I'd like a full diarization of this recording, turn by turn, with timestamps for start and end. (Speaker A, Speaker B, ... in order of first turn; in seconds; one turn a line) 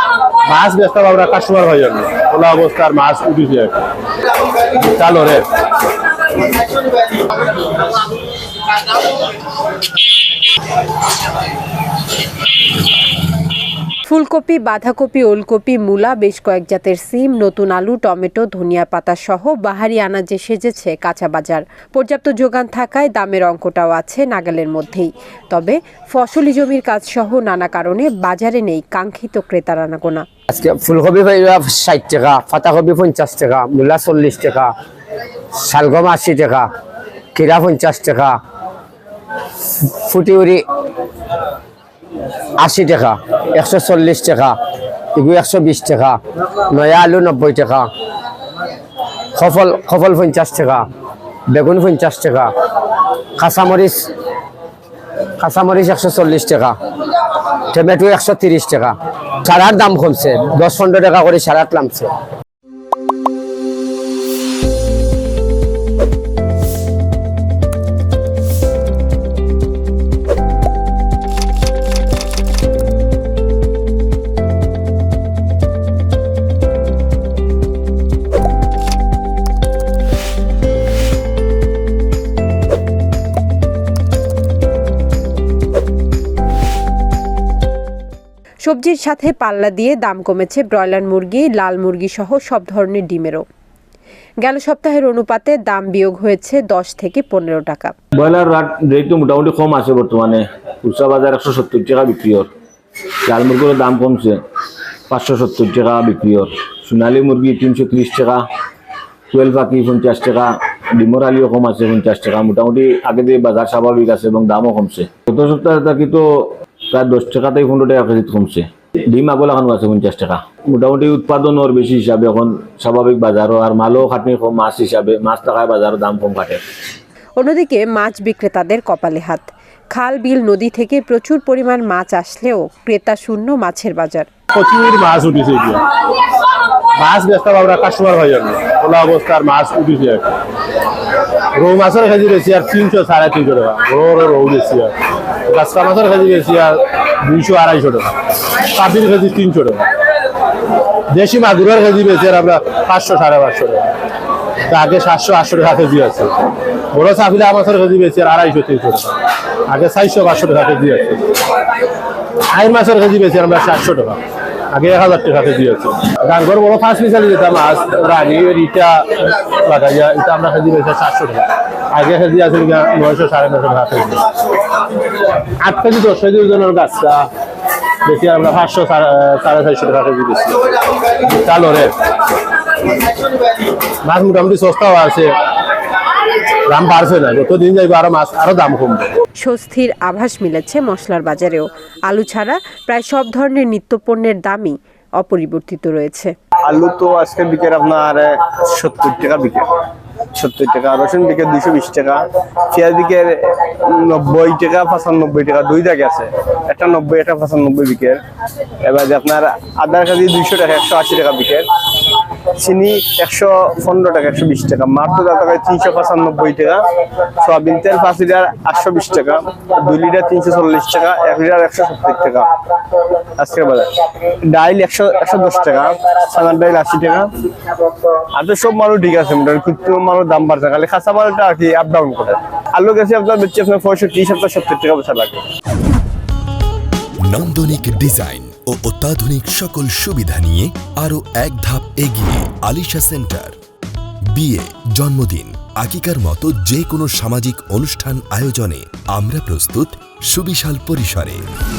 Speaker A: 0.4-3.8
Speaker A: 4.8-5.4
Speaker B: 14.1-30.2
Speaker C: 30.5-34.7
Speaker C: 35.6-36.7
Speaker C: 37.3-38.4
Speaker C: 39.8-40.6
Speaker C: 42.6-44.5
Speaker C: 45.1-47.9
Speaker C: 49.3-50.8
Speaker C: 51.5-52.5
Speaker C: 53.4-54.1
Speaker C: 55.4-56.8
Speaker C: 57.7-62.1
Speaker B: 88.6-93.4
Speaker B: 94.4-97.9
Speaker D: 98.2-102.5
Speaker D: 103.2-104.4
Speaker D: 105.1-108.4
Speaker D: 109.3-126.6
Speaker B: 127.4-134.3
Speaker A: 134.5-135.8
Speaker A: 136.9-140.3
Speaker A: 141.5-144.9
Speaker A: 145.4-149.9
Speaker A: 151.1-153.9
Speaker A: 154.7-156.3
Speaker A: 156.9-161.2
Speaker A: 162.5-164.2
Speaker A: 164.7-174.2
Speaker A: 175.5-177.3
Speaker A: 178.0-180.6
Speaker A: 181.2-181.9
Speaker A: 184.0-185.3
Speaker A: 186.6-189.1
Speaker B: 189.4-196.3
Speaker E: 196.7-199.7
Speaker E: 200.3-208.2
Speaker E: 208.8-211.7
Speaker E: 212.6-216.8
Speaker E: 217.4-222.5
Speaker E: 223.3-223.9
Speaker E: 224.4-227.3
Speaker E: 228.3-235.4
Speaker F: 237.3-243.5
Speaker F: 244.4-251.4